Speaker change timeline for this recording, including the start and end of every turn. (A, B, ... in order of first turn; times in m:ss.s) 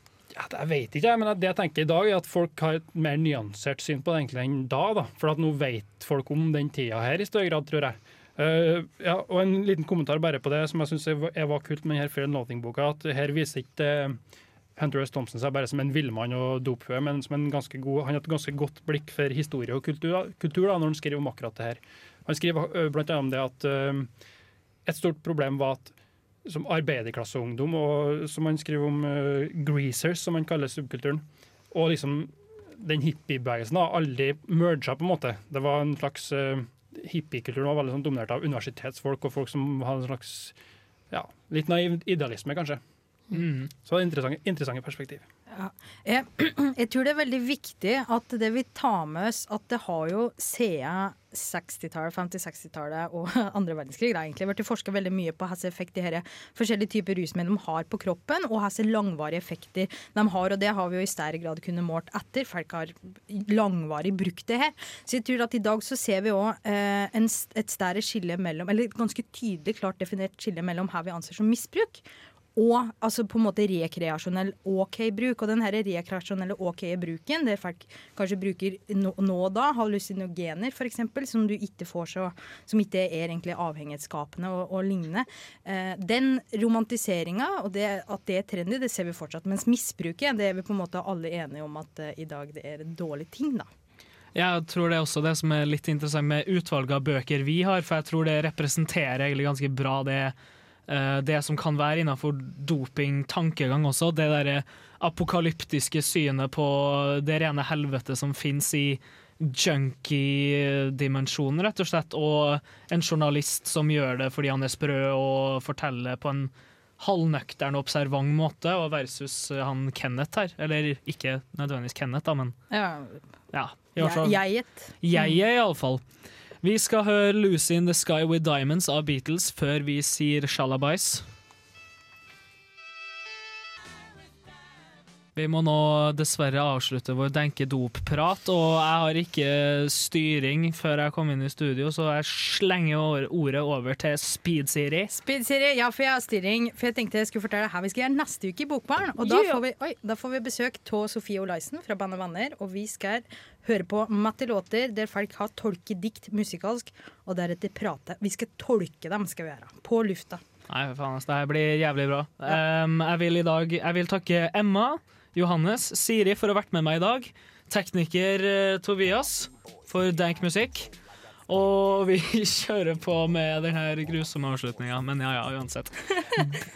0:00.3-0:14.2 A
0:14.8-0:24.1 A
0:24.8-0:40.6 A
0:41.1-0:42.8 A
0:43.3-0:43.7 B
0:43.8-0:45.2 A
0:45.5-1:12.0 C
1:12.6-1:33.7 C
1:34.3-1:40.3 B
1:40.9-2:02.6 B
2:02.7-2:03.2 C
2:03.5-2:04.4 B
2:04.0-2:05.3 C
2:05.0-2:06.0 B
2:06.6-2:11.2 B
2:15.4-2:25.1 B
2:25.1-2:40.4 C
2:29.2-2:29.6 B
2:40.7-2:50.9 B
2:51.5-2:56.6 B